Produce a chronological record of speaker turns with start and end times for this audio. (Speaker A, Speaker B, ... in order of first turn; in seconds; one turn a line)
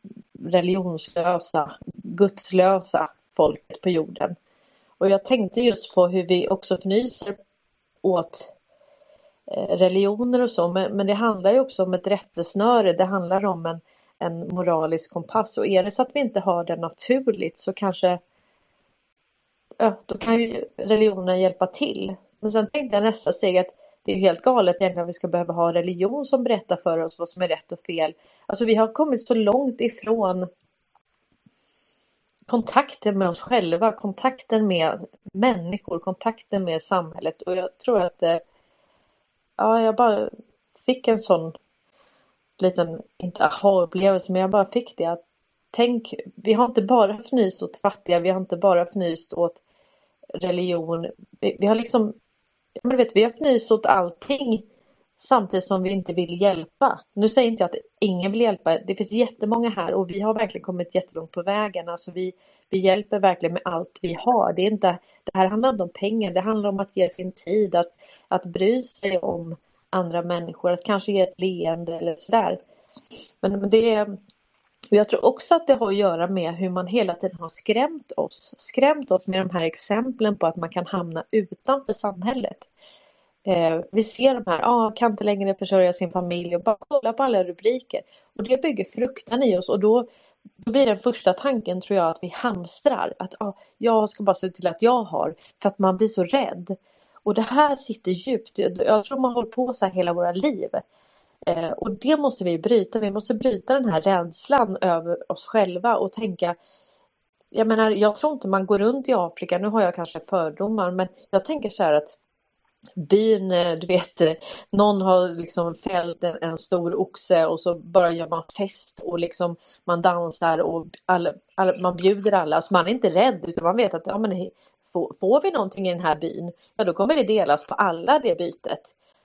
Speaker A: 0.4-4.4
Speaker A: 5.0-7.4
Speaker A: 8.0-8.5
Speaker A: 9.5-18.2
Speaker A: 19.8-30.5
Speaker A: 32.5-38.4
Speaker A: 39.6-41.6
Speaker A: 42.6-45.2
Speaker A: 45.7-49.6
Speaker A: 50.4-52.1
Speaker A: 52.8-54.6
Speaker A: 55.2-72.6
Speaker A: 73.4-74.2
Speaker A: 74.9-82.7
Speaker A: 83.5-90.1
Speaker A: 90.6-100.8
Speaker A: 101.5-106.6
Speaker A: 107.5-112.2
Speaker A: 113.0-128.9